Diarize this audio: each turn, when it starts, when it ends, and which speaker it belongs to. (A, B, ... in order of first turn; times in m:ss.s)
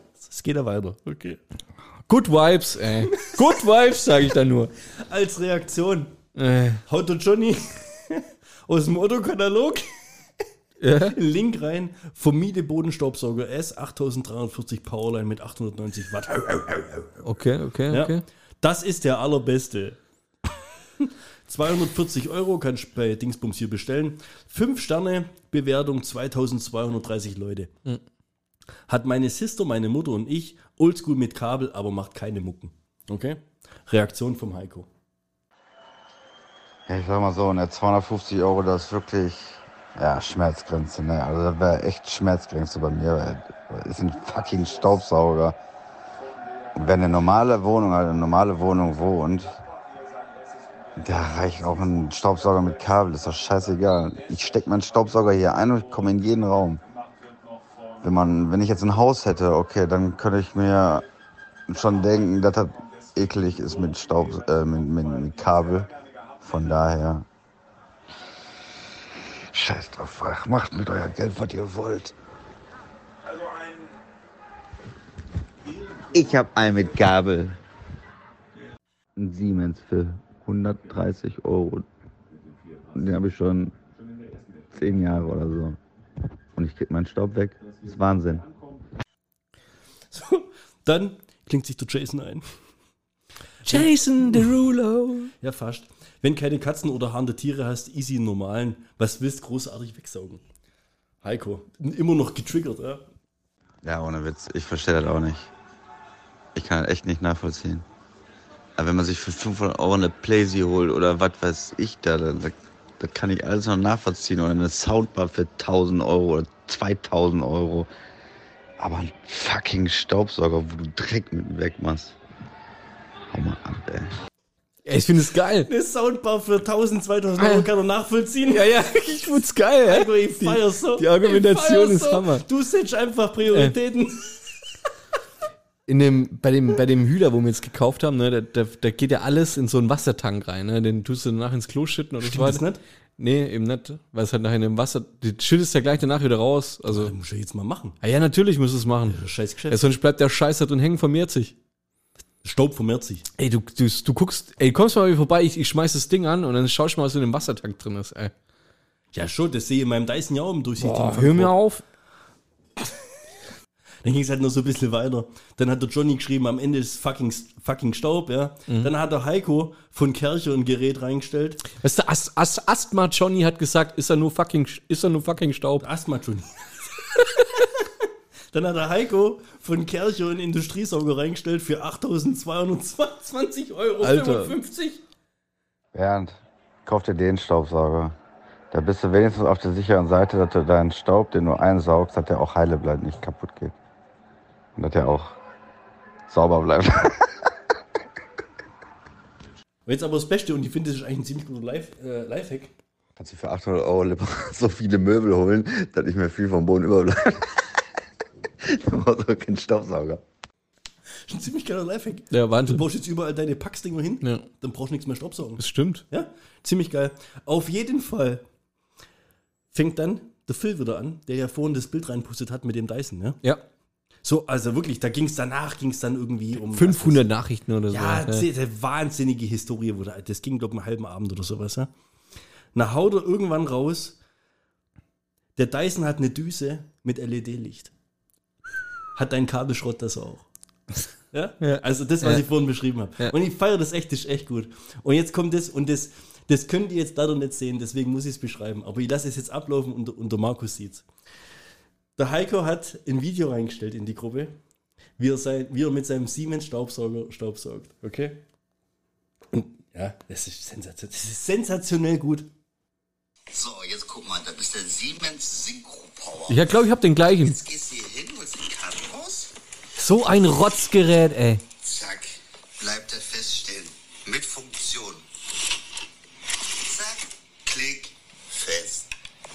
0:00.2-0:01.4 A
0:02.1-0:04.7 B
0:04.9-0:06.1 A
0:06.3-0:06.8 B
0:06.9-0:10.3 A
0:10.8-0:11.2 B
0:11.0-0:17.2 A
0:17.2-0:18.2 B
0:17.9-0:27.7 A
0:28.9-0:34.9 A
0:36.9-0:45.6 C
0:46.7-0:49.6 C
0:51.0-0:56.8 C
0:58.0-1:01.0 C
1:01.7-1:07.2 C
1:09.5-1:12.1 C
1:16.1-1:17.6 C
1:19.2-1:21.8 C
1:22.9-1:23.7 C
1:24.7-1:25.8 C
1:26.5-1:28.5 C
1:30.1-1:32.5 A
1:33.6-1:34.5 A
1:33.6-1:35.3 B
1:35.4-1:40.4 A
1:41.2-1:43.0 A
1:43.8-1:45.5 C
1:46.5-1:47.8 C
1:48.8-1:57.9 C
1:58.8-2:02.2 C
2:03.3-2:04.2 C
2:04.8-2:05.7 B
2:05.7-2:08.6 A
2:07.4-2:07.7 B
2:08.5-2:12.4 B
2:09.8-2:14.6 A
2:13.5-2:13.7 B
2:15.9-2:22.6 B
2:22.2-2:22.8 A
2:23.2-2:27.1 B
2:26.9-2:28.0 A
2:28.0-2:31.5 B
2:29.1-2:29.8 A
2:32.4-2:33.2 A
2:33.4-2:38.3 B
2:39.1-2:41.5 A
2:40.8-2:41.8 B
2:44.0-2:51.6 A
2:51.7-2:55.8 B
2:55.8-2:57.1 A
2:57.8-3:05.0 A
3:04.0-3:04.5 B
3:05.9-3:08.2 C
3:08.7-3:13.7 C
3:14.8-3:15.4 C
3:16.3-3:17.5 C
3:19.8-3:22.7 A
3:23.2-3:27.7 C
3:28.6-3:30.2 C
3:31.2-3:38.4 A
3:32.3-3:32.8 B
3:34.2-3:34.5 B
3:35.6-3:36.0 B
3:39.7-3:43.4 A
3:44.2-3:47.3 A
3:46.7-3:48.5 B
3:47.9-3:51.9 A
3:52.7-3:54.2 A
3:55.6-3:57.9 A
3:59.1-4:00.5 A
4:01.3-4:11.1 A
4:01.6-4:02.4 B
4:12.2-4:14.6 A
4:15.2-4:18.4 A
4:19.5-4:22.5 A
4:23.5-4:25.7 C
4:23.6-4:26.4 D
4:26.5-4:27.6 B
4:27.7-4:29.5 D
4:27.8-4:28.8 C
4:29.9-4:31.6 B
4:32.0-4:32.2 D
4:32.8-4:33.8 C
4:32.9-4:35.2 D
4:34.3-4:35.0 C
4:37.7-4:38.0 C
4:37.7-4:38.1 D